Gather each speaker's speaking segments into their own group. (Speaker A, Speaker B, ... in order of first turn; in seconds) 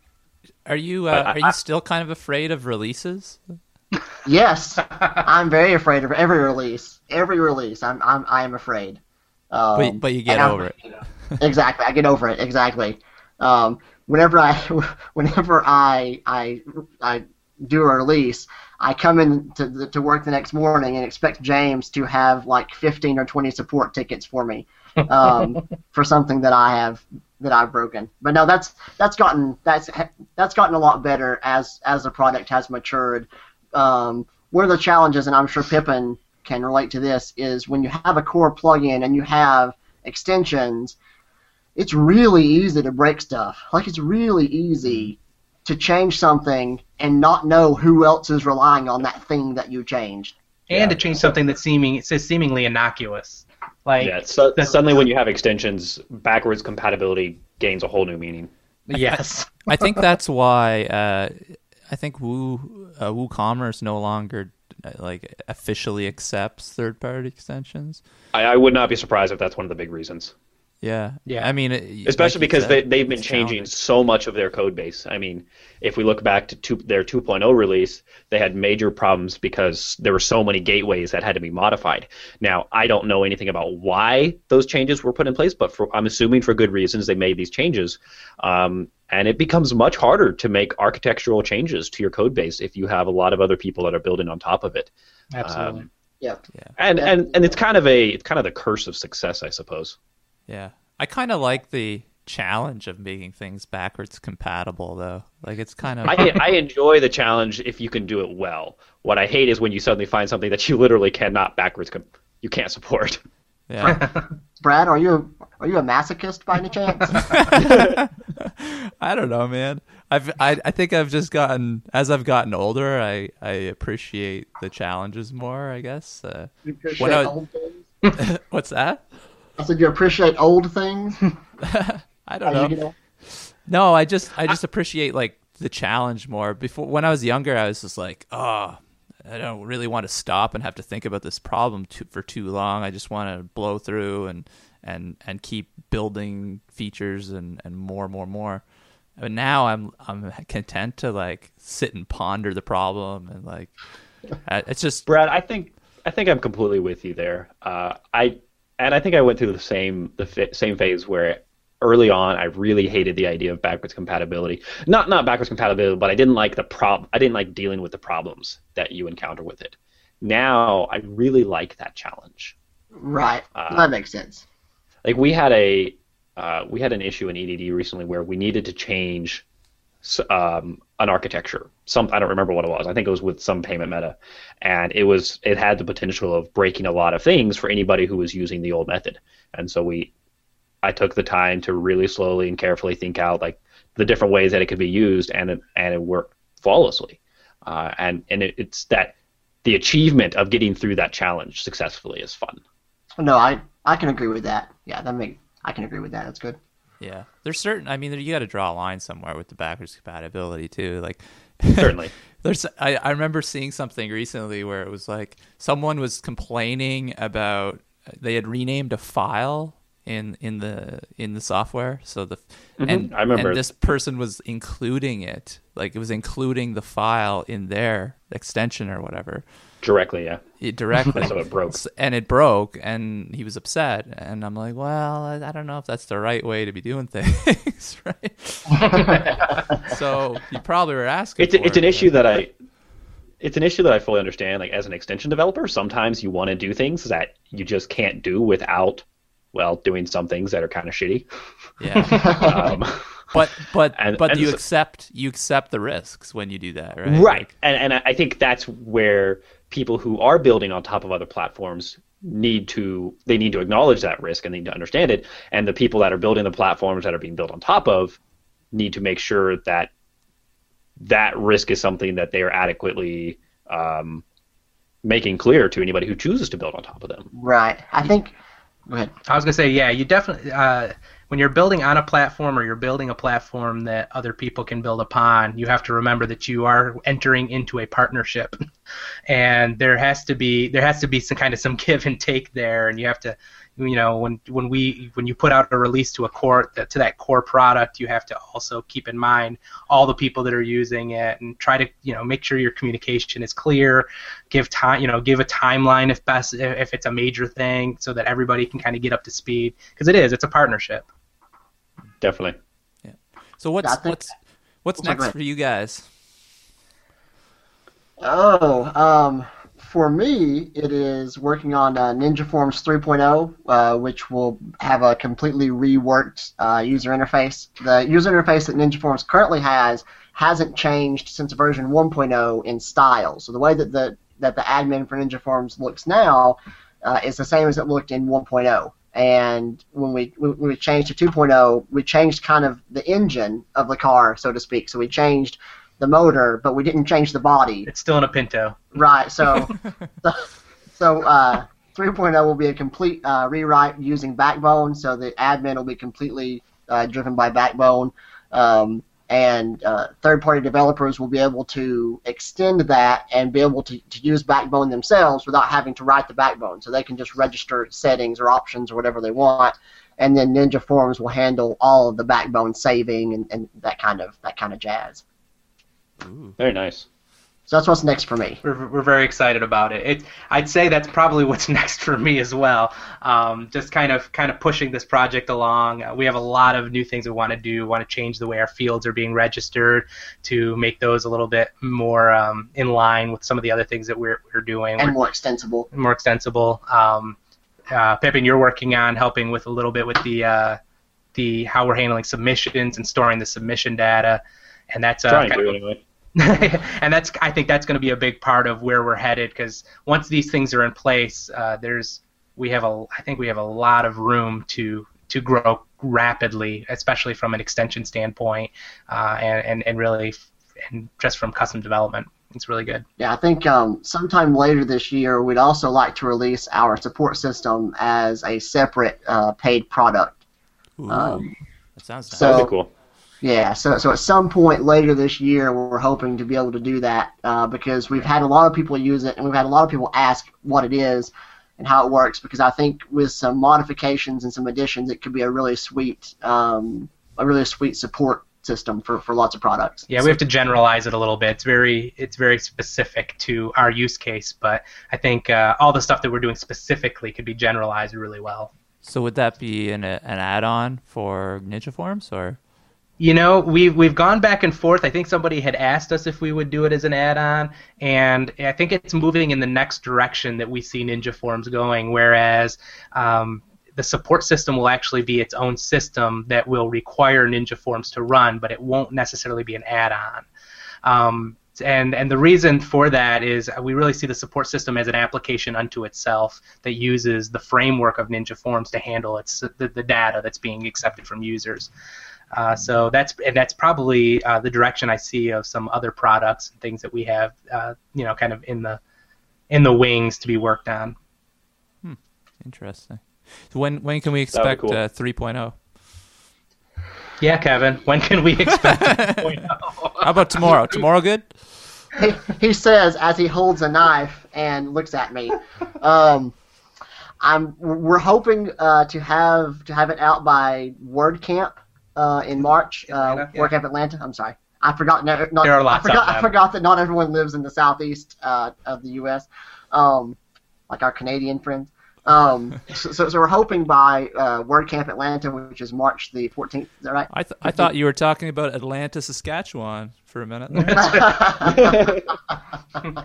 Speaker A: 0.7-3.4, 9.8-10.8, 58.9-68.0, 70.8-73.7, 100.5-106.4, 113.7-114.0, 117.1-127.3, 128.1-129.0, 131.6-148.6, 149.2-155.1, 207.0-229.4, 230.6-242.1, 251.8-252.5, 253.3-257.5, 313.0-316.1, 376.2-376.6, 431.0-432.6, 459.0-462.6, 502.0-505.8, 508.7-509.6, 510.2-511.6, 537.3-541.4
Speaker B: 1.1-1.5, 50.7-51.3, 54.0-58.5, 68.3-70.3, 72.0-94.9, 95.4-95.9, 96.8-100.0, 106.0-113.2, 117.5-118.0, 155.1-172.6, 173.5-173.9, 175.0-179.4, 180.0-190.1, 190.8-202.6, 211.8-212.1, 222.8-223.7, 229.8-230.4, 231.1-231.8, 241.4-242.5, 243.4-251.2, 252.4-253.3, 253.9-254.6, 257.1-268.2, 268.7-269.9, 271.0-274.2, 275.0-277.3, 312.2-312.6, 376.6-377.1, 405.3-406.0, 432.4-432.9, 504.5-505.0, 541.7-542.2
Speaker C: 4.2-9.0, 9.5-10.6, 11.4-41.0, 41.8-50.3, 96.9-97.5, 113.8-114.1, 114.6-117.3, 126.6-127.8, 129.6-131.2, 132.4-132.9, 173.0-174.4, 203.2-206.6, 252.2-252.5, 277.3-278.3, 313.8-314.2, 315.0-315.3, 318.2-347.9, 348.9-350.4, 350.9-375.2, 377.7-378.6, 395.0-395.9, 423.2-430.4, 431.1-431.4, 432.3-432.7, 433.4-450.3, 512.1-516.5, 517.4-530.4, 530.9-537.9, 540.9-542.2
Speaker D: 50.7-54.7, 58.9-59.7, 95.3-95.8, 113.8-114.2, 238.8-239.4, 251.9-252.3, 279.3-288.6, 289.3-311.1, 347.9-348.9, 378.6-395.1, 395.9-397.4, 397.9-400.8, 401.3-405.8, 406.4-423.0, 450.1-458.7, 463.2-480.4, 481.0-491.9, 492.5-499.0, 499.7-501.1, 507.4-511.0, 523.1-523.7, 525.6-526.5, 540.8-541.0